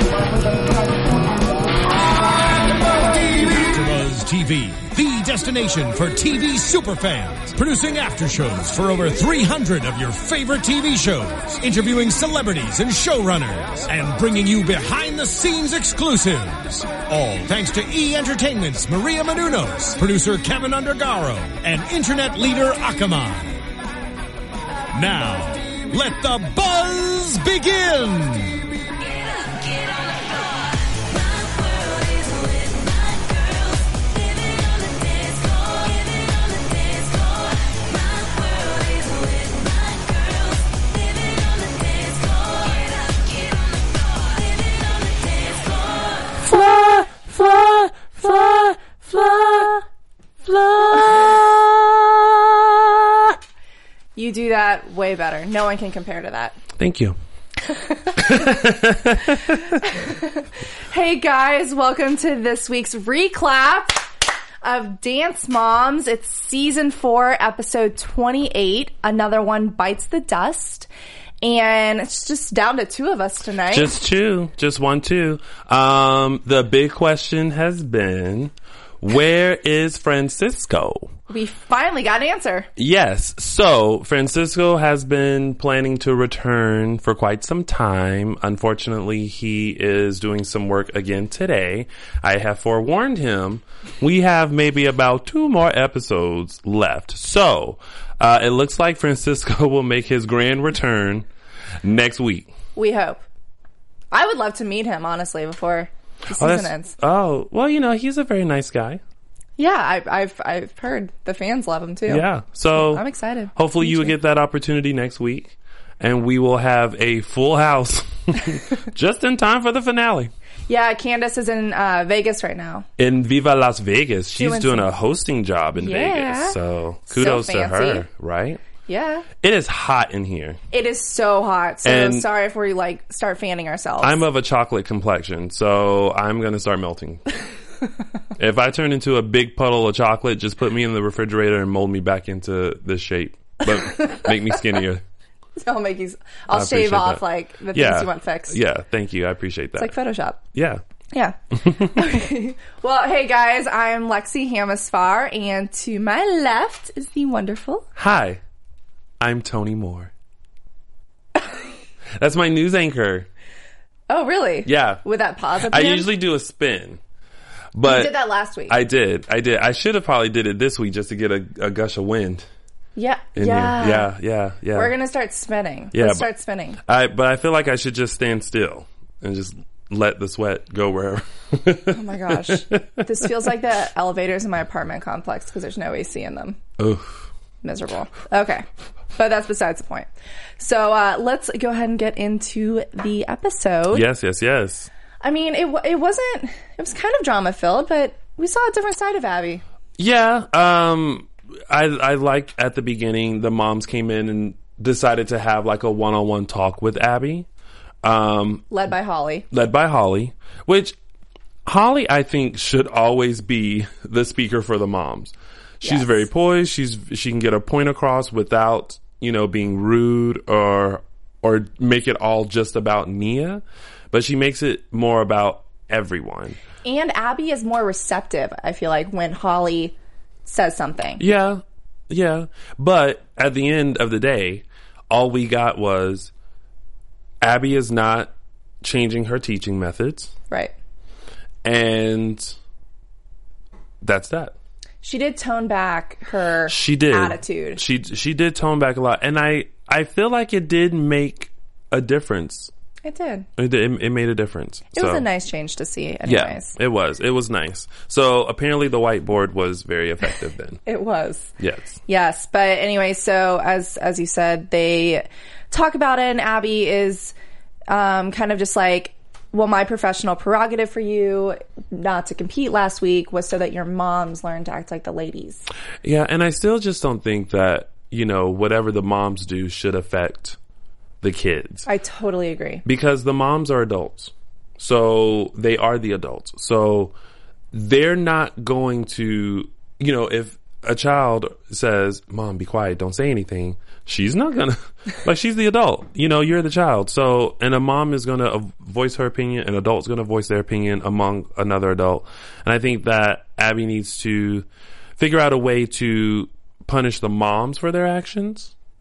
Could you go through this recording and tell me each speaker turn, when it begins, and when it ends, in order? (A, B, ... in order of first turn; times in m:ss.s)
0:02.9-0:23.6 A
0:24.9-0:28.6 A
0:31.7-0:32.4 A
0:46.4-0:49.8 B
0:50.5-0:51.4 B
0:54.2-0:56.6 C
0:56.8-0:57.2 B
0:57.7-1:04.1 C
0:58.2-0:59.8 B
1:04.6-1:10.9 C
1:11.4-1:13.9 C
1:13.7-1:21.1 B
1:21.3-1:22.7 C
1:22.8-1:41.3 B
1:41.8-1:42.5 B
1:42.8-1:43.2 C
1:44.1-1:47.0 C
1:46.3-1:49.0 B
1:49.6-1:54.1 C
1:52.1-1:53.0 B
1:53.6-2:00.3 B
2:00.7-2:02.9 C
2:03.0-2:08.6 B
2:04.4-2:04.9 C
2:05.7-2:08.0 C
2:08.9-2:09.3 C
2:09.4-2:10.6 B
2:10.7-2:14.2 C
2:11.8-2:12.2 B
2:14.0-2:17.2 B
2:18.4-2:25.0 B
2:23.7-2:24.6 C
2:25.6-2:28.6 C
2:26.5-2:29.9 B
2:29.8-2:30.4 C
2:30.5-2:30.8 B
2:31.1-2:37.9 C
2:31.6-2:31.9 B
2:38.0-2:38.4 B
2:39.2-2:40.1 B
2:42.2-2:43.3 B
2:44.1-2:46.1 C
2:44.7-2:45.0 B
2:45.6-2:47.0 B
2:47.7-2:48.1 B
2:47.8-2:48.7 C
2:48.7-2:52.5 B
2:53.0-2:54.1 C
2:53.4-2:54.9 B
2:54.7-2:56.8 C
2:55.9-2:56.3 B
2:56.8-3:03.0 B
3:01.9-3:06.6 C
3:06.8-3:07.3 B
3:07.6-3:14.0 C
3:13.9-3:14.9 B
3:15.2-3:19.6 C
3:20.0-3:27.5 B
3:28.0-3:28.7 B
3:28.7-3:29.5 C
3:29.5-3:31.0 B
3:31.7-3:46.6 B
3:35.8-3:36.2 C
3:46.8-3:51.2 C
3:51.2-3:56.3 B
3:57.4-4:00.3 B
4:01.6-4:02.6 B
4:04.0-4:04.5 B
4:05.0-4:07.8 C
4:06.7-4:12.7 B
4:13.0-4:13.5 C
4:13.6-4:15.2 B
4:14.9-4:16.8 C
4:16.2-4:20.8 B
4:20.8-4:21.5 C
4:21.6-4:22.0 B
4:22.1-4:27.3 C
4:27.9-4:35.6 C
4:36.0-4:40.6 B
4:41.2-4:41.9 B
4:41.9-4:42.8 C
4:42.8-4:47.1 B
4:47.7-5:04.7 B
5:05.2-5:08.7 B